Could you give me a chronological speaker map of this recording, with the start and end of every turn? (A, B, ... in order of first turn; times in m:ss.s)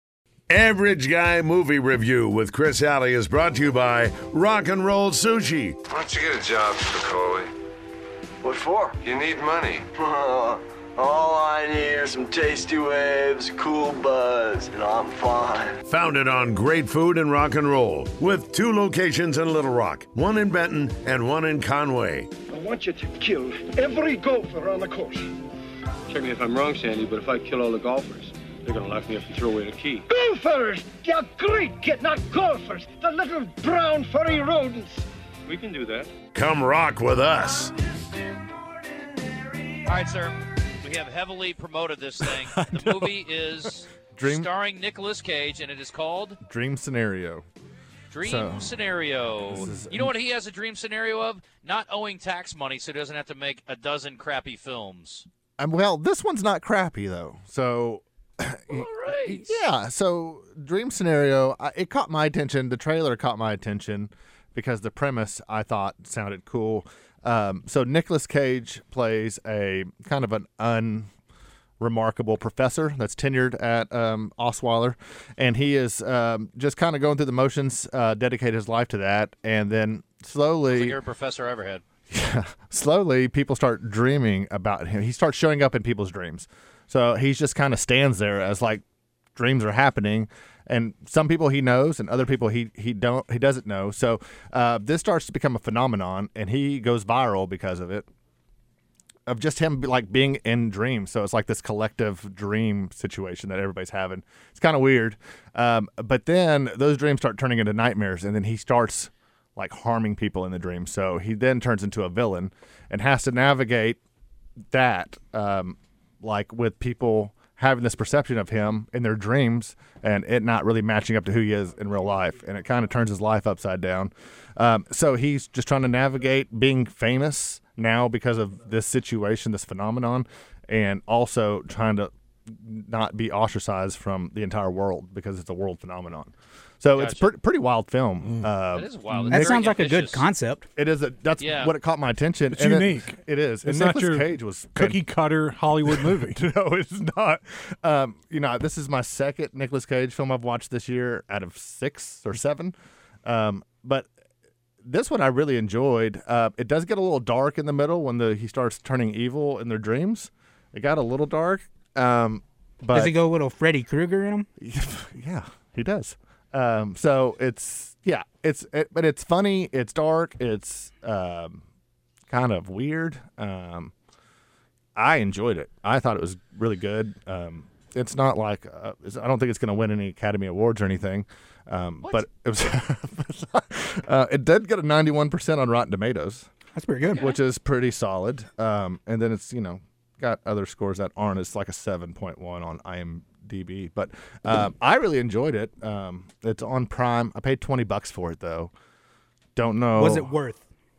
0:00.5-0:05.8 A
0:05.9-0:07.5 B
0:08.4-0:09.0 C
0:09.0-0:10.0 B
0:09.9-0:15.8 C
0:15.9-0:22.3 A
0:22.5-0:25.4 D
0:26.1-0:30.0 E
0:30.0-0:35.0 D
0:35.5-0:36.1 E
0:36.3-0:37.8 A
0:39.8-0:46.4 F
0:42.7-0:43.0 G
0:44.1-0:44.5 G
0:46.4-0:47.4 G
0:48.1-0:55.3 F
0:48.2-0:48.7 G
0:49.4-0:50.1 G
0:55.6-1:11.1 G
0:58.7-0:59.6 F
1:11.8-1:21.0 G
1:20.7-1:21.8 F
1:22.1-1:28.8 G
1:29.4-1:38.1 G
1:39.3-1:54.0 G
1:54.7-2:18.9 G
2:17.0-2:17.3 F
2:18.2-2:18.5 H
2:18.7-2:20.3 F
2:19.1-2:19.5 H
2:19.3-2:20.7 I
2:20.8-2:25.1 G
2:21.4-2:21.8 F
2:22.5-2:26.4 H
2:25.9-2:32.7 G
2:33.2-2:34.1 G
2:34.8-2:43.2 G
2:42.9-2:44.5 I
2:44.6-2:51.6 G
2:52.3-2:53.9 G
2:55.0-3:06.5 G
3:06.8-3:07.3 I
3:07.1-3:07.4 F
3:07.2-3:18.7 G
3:19.6-3:20.3 G
3:20.0-3:20.7 I